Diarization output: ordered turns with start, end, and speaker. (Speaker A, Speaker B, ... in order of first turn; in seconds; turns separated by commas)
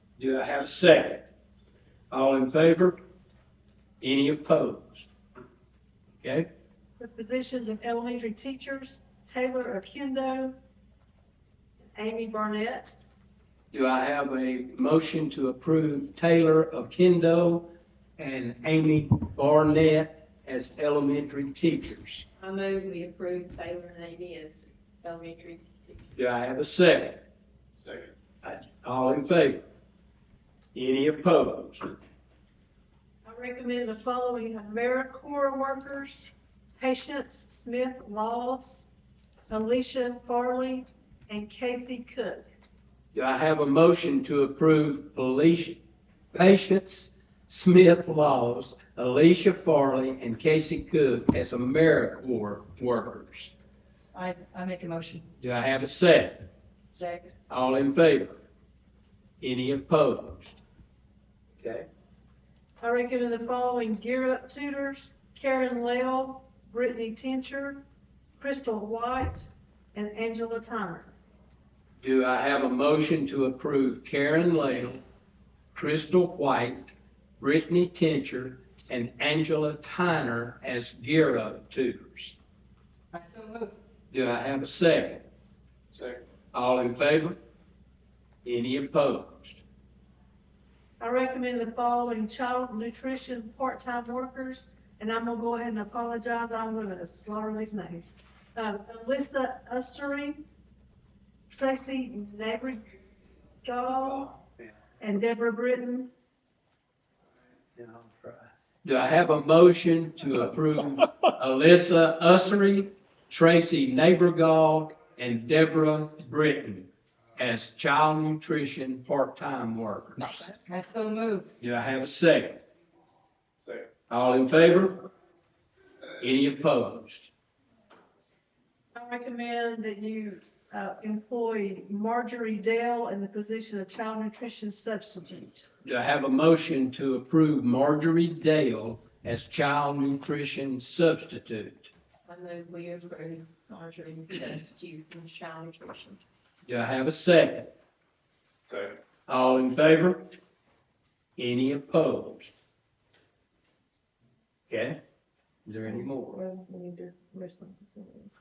Speaker A: 0.2-1.3, Speaker A: 2.1-3.0, Speaker A: 4.0-5.1, Speaker A: 6.2-6.5, Speaker B: 7.0-10.6, Speaker B: 12.0-13.0, Speaker A: 13.7-22.3, Speaker C: 22.4-26.0, Speaker A: 26.1-27.2, Speaker A: 28.4-29.6, Speaker A: 30.7-31.9, Speaker B: 33.2-38.9, Speaker B: 39.5-42.5, Speaker A: 43.1-45.8, Speaker A: 46.3-53.5, Speaker D: 54.1-55.3, Speaker A: 55.4-56.5, Speaker C: 57.0-57.3, Speaker A: 57.5-58.4, Speaker A: 59.4-60.6, Speaker A: 61.6-61.9, Speaker B: 62.8-67.8, Speaker B: 68.4-71.1, Speaker A: 72.0-75.0, Speaker A: 75.7-82.4, Speaker D: 83.1-83.7, Speaker A: 84.1-85.2, Speaker A: 86.5-87.4, Speaker A: 88.4-89.6, Speaker B: 91.0-100.4, Speaker B: 101.5-103.0, Speaker B: 103.6-104.4, Speaker A: 104.0-104.7, Speaker B: 105.0-106.1, Speaker A: 107.8-120.4, Speaker D: 120.5-121.5, Speaker A: 121.6-122.6, Speaker A: 124.1-125.1, Speaker A: 126.2-127.3, Speaker B: 128.9-135.7, Speaker A: 135.8-141.9, Speaker C: 142.2-146.2, Speaker A: 146.7-147.7, Speaker A: 149.3-150.2, Speaker A: 151.4-152.5, Speaker A: 154.7-155.0, Speaker A: 155.7-156.4, Speaker B: 156.3-158.3